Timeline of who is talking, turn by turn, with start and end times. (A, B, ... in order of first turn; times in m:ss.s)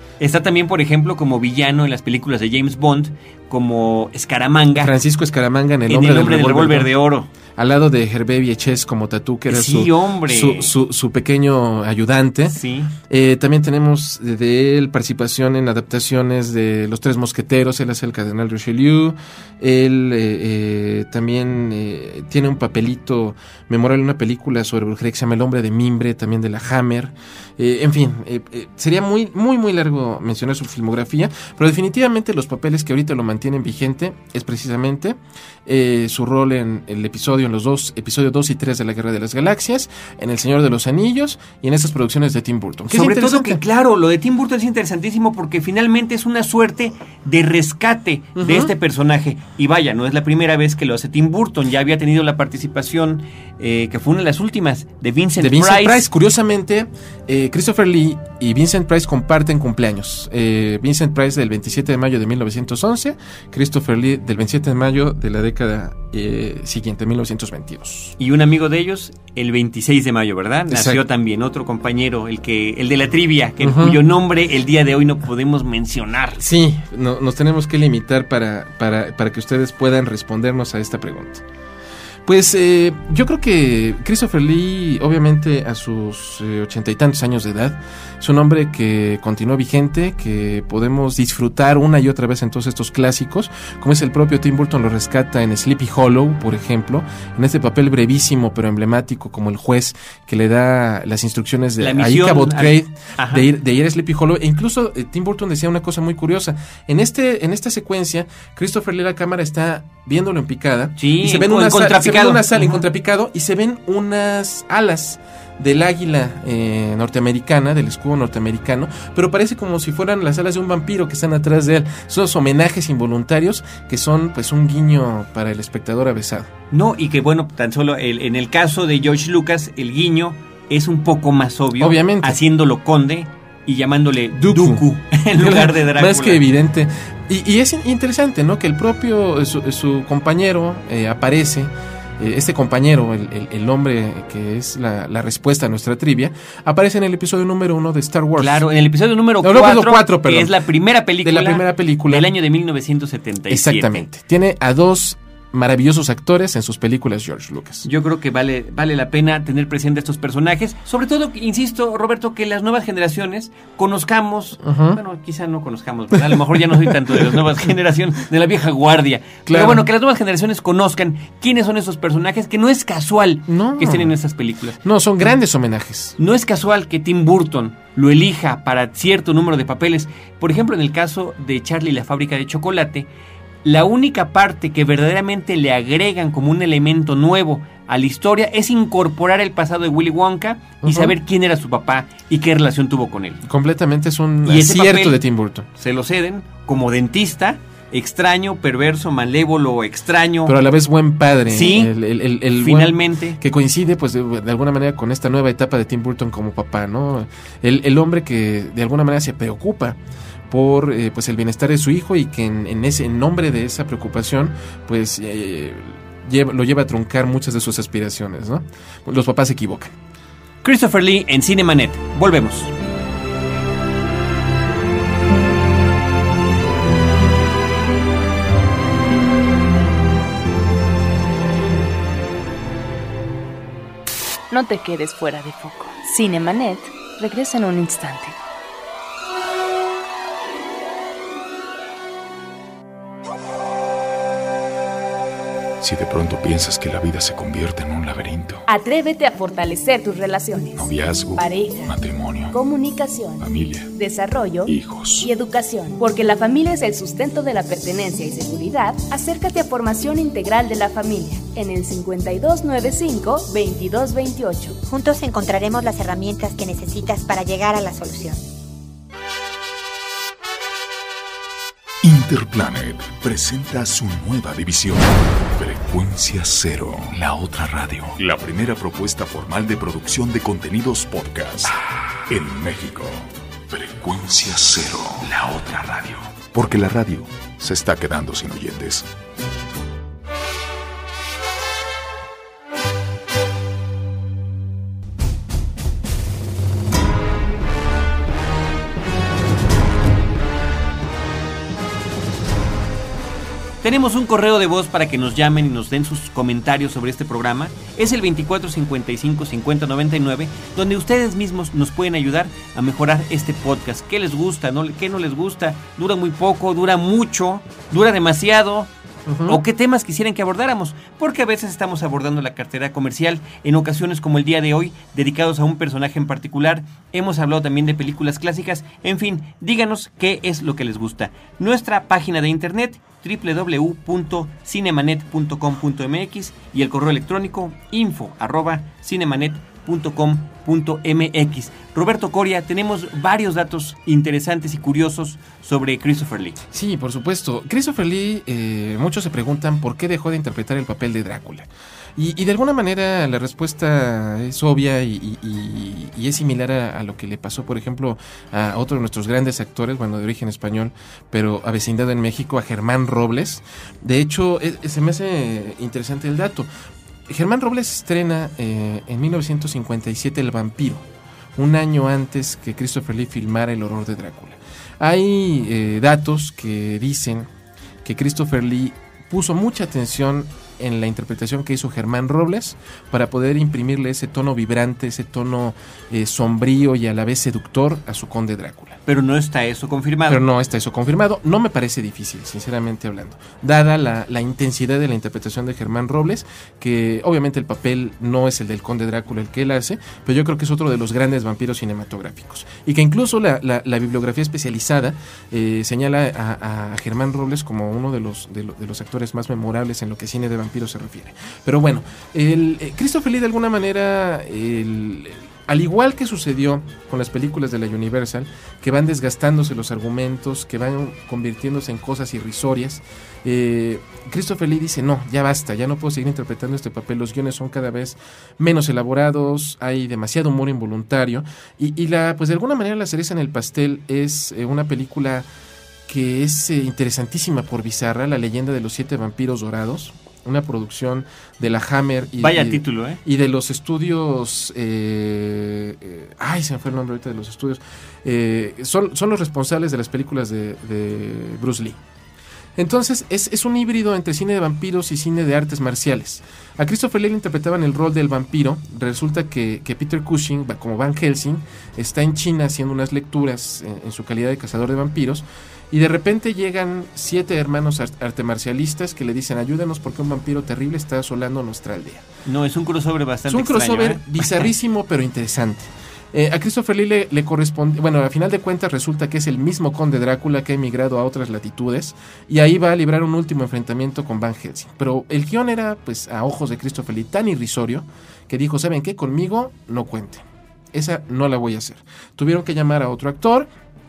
0:00.2-0:04.9 A
0:04.8-0:06.9 B
0:05.9-0:07.3 A
0:07.6-0:43.6 B
0:09.5-0:10.7 A
0:12.5-0:12.9 A
0:42.9-0:56.1 A
0:48.4-0:48.7 B
0:55.4-1:08.2 B
1:08.2-1:16.4 A
1:10.7-1:11.0 B
1:13.6-1:14.0 B
1:16.4-1:21.4 B
1:22.3-2:06.5 B
1:41.8-1:43.5 A
1:51.0-1:52.8 A
2:06.7-2:16.4 A
2:11.8-2:12.4 B
2:14.4-2:14.8 B
2:15.4-2:28.6 B
2:28.4-2:34.1 A
2:29.4-2:30.6 B
2:31.2-2:32.3 B
2:33.5-2:37.9 B
2:37.8-2:54.8 A
2:44.6-2:45.0 B
2:46.1-2:47.4 B
2:49.5-2:49.8 B
2:53.5-2:54.2 B
2:54.8-2:56.2 B
2:56.2-3:03.1 A
3:03.6-3:13.4 A
3:10.8-3:11.2 B
3:13.4-3:15.7 B
3:14.4-3:15.2 A
3:15.8-3:20.6 A
3:20.4-3:30.0 B
3:21.5-3:21.9 A
3:22.6-3:23.4 A
3:30.5-3:39.9 B
3:40.6-3:42.7 A
3:54.5-3:58.4 C
4:05.8-4:08.6 D
4:08.7-4:12.0 C
4:10.8-4:12.6 D
4:12.5-4:24.8 C
4:13.4-4:13.9 D
4:14.7-4:15.3 D
4:24.9-4:28.5 E
4:32.0-4:41.8 D
4:42.3-4:49.1 D
5:03.8-5:18.9 A
5:19.3-5:19.6 B
5:19.5-5:46.6 A
5:46.7-6:06.7 B
6:07.3-6:17.5 B
6:18.0-6:29.0 B
6:29.1-6:30.4 A
6:30.3-7:15.5 B
7:16.1-7:32.0 B
7:22.4-7:23.2 A
7:32.8-7:52.3 B
7:52.5-7:54.7 A
7:53.5-8:13.7 B